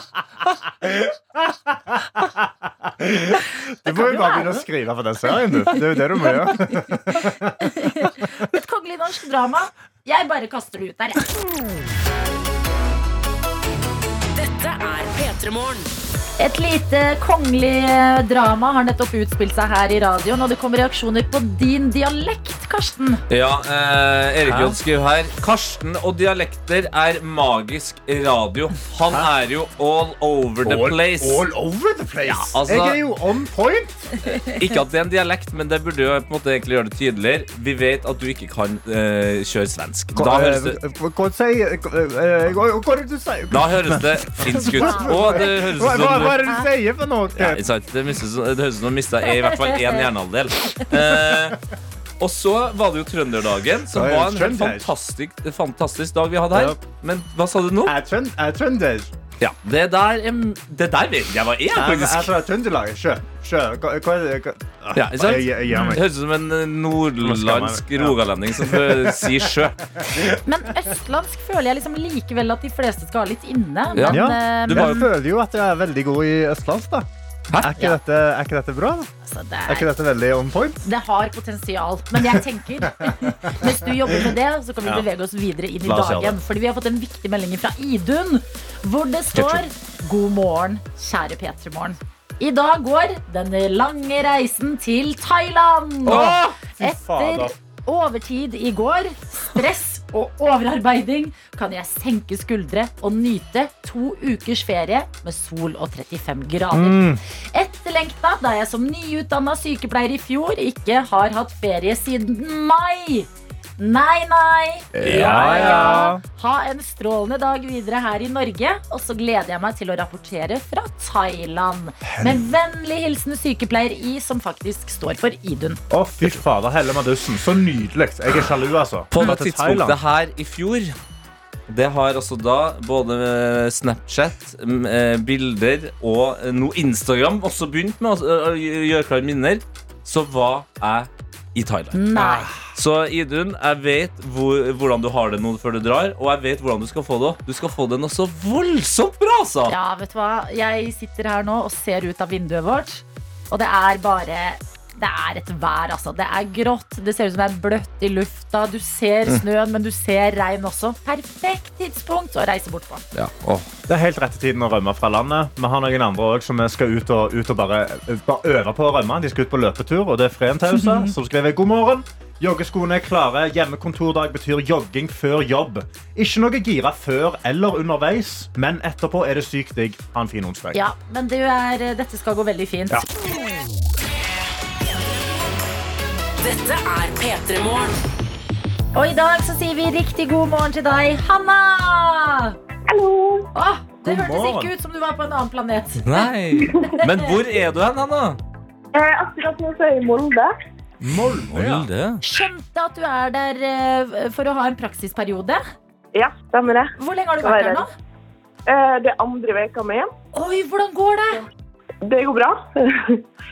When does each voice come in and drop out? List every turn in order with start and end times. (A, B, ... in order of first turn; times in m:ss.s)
0:00.8-0:07.9 A
0:03.9-0:04.6 B
0:06.2-0:11.2 B
0:14.4-0:15.9 C
0:16.4-0:23.2 B
0:23.3-0:31.5 D
0:24.4-0:24.8 A
0:30.6-0:34.1 A
0:32.2-0:33.0 D
0:34.2-0:40.8 D
0:40.2-0:47.6 A
0:43.5-0:46.4 D
0:44.5-0:46.6 B
0:47.4-0:51.6 D
0:49.3-0:50.1 B
0:52.2-0:57.9 D
0:53.9-0:54.9 A
0:56.5-0:56.8 A
0:57.8-0:59.1 A
0:59.4-1:02.3 D
1:01.7-1:06.0 A
1:05.0-1:09.8 D
1:07.2-1:10.2 A
1:10.2-1:15.1 B
1:14.0-1:15.1 D
1:14.1-1:19.1 A
1:19.2-1:19.9 B
1:19.7-1:20.8 A
1:20.8-2:05.8 B
1:22.8-1:24.2 A
1:25.8-1:26.4 A
1:29.3-1:29.6 D
1:36.1-1:37.5 A
1:36.1-1:36.6 D
1:46.7-1:47.2 A
1:54.9-1:56.2 A
1:55.0-1:56.1 D
2:02.1-2:02.4 A
2:05.9-2:10.0 A
2:09.1-2:11.0 D
2:11.7-2:29.7 D
2:21.9-2:22.6 B
2:22.2-2:22.6 A
2:29.7-2:43.1 B
2:43.2-2:43.7 D
2:43.9-3:00.8 A
2:50.8-2:51.1 B
3:00.7-3:03.1 B
3:06.4-3:08.0 C
3:08.9-3:12.6 B
3:12.9-3:13.5 E
3:13.5-3:16.3 B
3:14.0-3:14.7 A
3:16.0-3:18.4 D
3:16.6-3:17.0 E
3:18.9-3:20.5 E
3:21.0-3:21.9 A
3:21.5-3:22.2 D
3:22.2-3:25.6 B
3:26.2-3:27.8 E
3:27.0-3:27.9 B
3:28.7-3:30.1 E
3:30.3-3:31.4 B
3:32.0-3:33.2 E